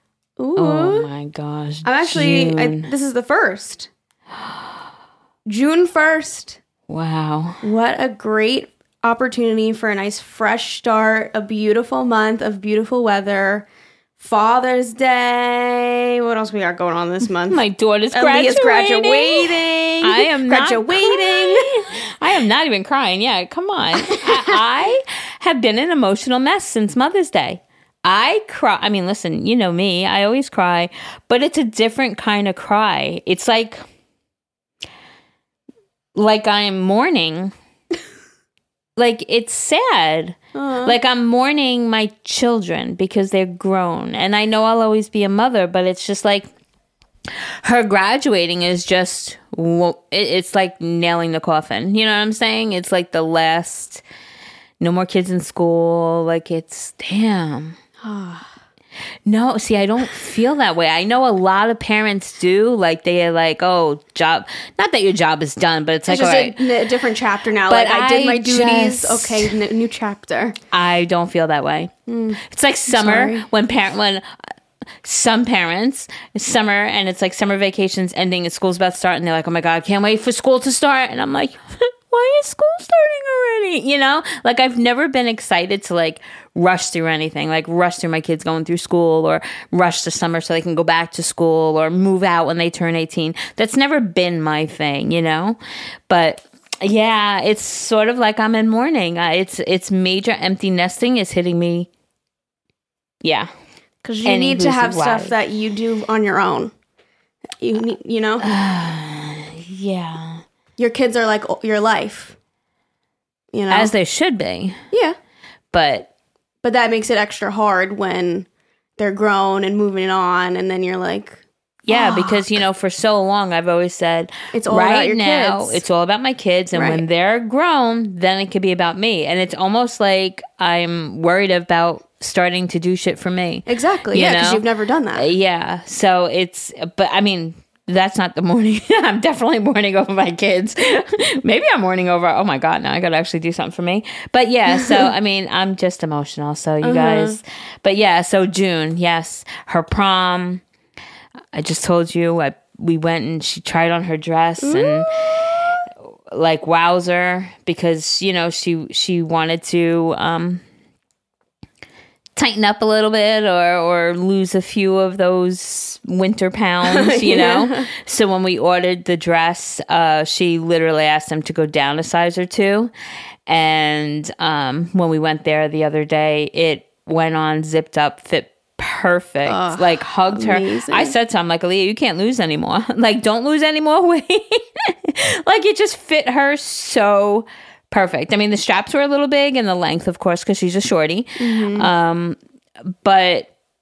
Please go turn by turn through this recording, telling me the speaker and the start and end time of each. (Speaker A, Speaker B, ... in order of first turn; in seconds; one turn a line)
Speaker A: 0.4-1.1
Speaker B: 0.6-2.9
Speaker A: 1.8-3.9
Speaker A: 5.5-6.6
Speaker B: 6.9-7.6
Speaker A: 7.6-21.9
Speaker B: 17.5-33.8
Speaker A: 24.0-24.6
Speaker B: 36.1-37.5
Speaker B: 39.0-46.5
Speaker A: 40.5-41.0
Speaker B: 47.3-54.0
Speaker B: 54.8-57.8
Speaker A: 58.0-58.5
Speaker B: 59.2-66.6
Speaker A: 66.1-70.6
Speaker B: 67.7-69.5
Speaker B: 70.7-74.2
Speaker A: 72.1-73.5
Speaker B: 75.0-101.9
Speaker B: 103.2-103.5
Speaker A: 104.0-106.7
Speaker B: 104.2-105.3
Speaker A: 107.6-108.5
Speaker B: 108.4-110.4
Speaker A: 110.8-112.4
Speaker A: 113.5-113.9
Speaker B: 113.7-114.8
Speaker B: 115.7-116.1
Speaker A: 116.6-122.6
Speaker B: 121.8-134.6
Speaker A: 124.5-125.8
Speaker A: 126.7-127.0
Speaker A: 133.7-135.3
Speaker B: 135.1-150.6
Speaker A: 146.8-147.4
Speaker B: 151.5-155.7
Speaker A: 154.6-155.8
Speaker B: 156.3-160.6
Speaker B: 162.3-172.9
Speaker A: 166.8-167.9
Speaker B: 173.5-193.5
Speaker A: 179.4-181.1
Speaker A: 191.4-191.9